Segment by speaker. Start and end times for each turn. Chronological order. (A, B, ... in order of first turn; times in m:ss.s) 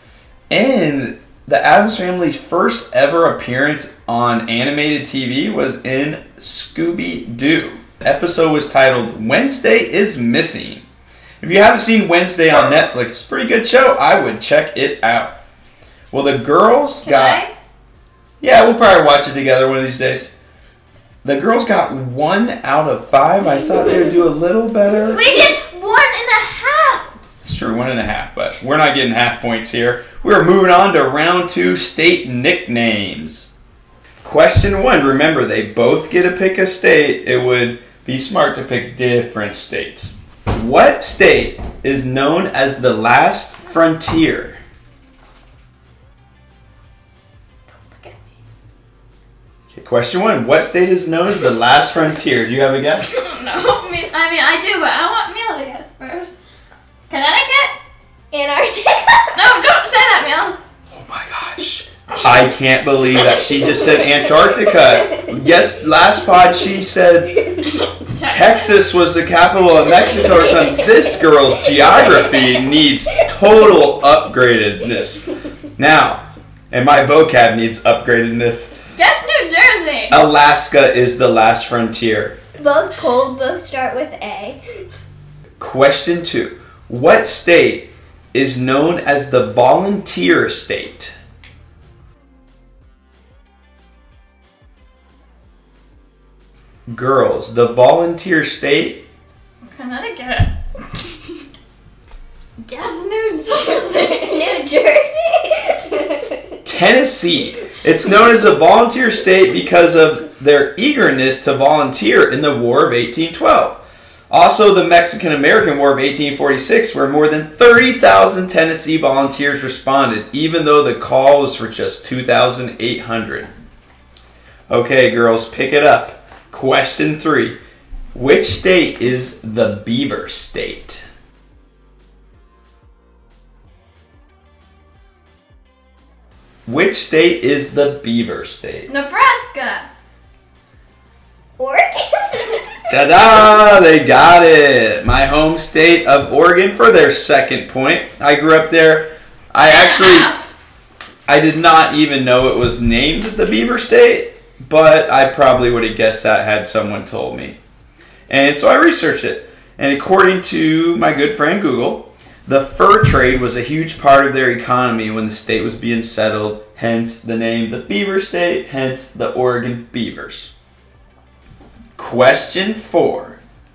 0:00.5-0:10.8 A
0:11.4-0:15.4 A
0:16.1-0:17.4 A
0:17.0-0:17.5 B
0:18.4-0:20.3 A
0:21.2-0:25.3 A
0:25.1-0:27.1 B
0:27.4-0:33.5 A
0:34.2-0:44.6 A
0:47.9-0:48.2 B
0:49.7-0:53.2 A
0:53.2-0:56.4 B
0:57.1-0:57.7 B
0:58.3-0:59.4 C
0:59.3-1:00.6 B
1:00.9-1:07.4 A
1:03.4-1:05.3 C
1:07.7-1:08.9 B
1:08.3-1:18.7 A
1:10.0-1:10.8 C
1:19.0-1:20.2 B
1:20.1-1:22.4 A
1:22.6-1:24.6 C
1:25.6-1:31.1 A
1:36.9-1:39.1 A
1:39.6-1:41.4 B
1:42.6-1:44.6 B
1:43.7-1:46.4 C
1:46.6-2:03.5 A
2:04.7-2:07.6 A
2:08.1-2:11.1 A
2:16.6-2:18.9 A
2:18.9-2:19.9 B
2:21.6-2:22.6 C
2:22.9-2:30.3 A
2:29.6-2:30.4 B
2:31.3-2:37.6 A
2:38.3-2:50.5 A
2:52.0-2:53.4 A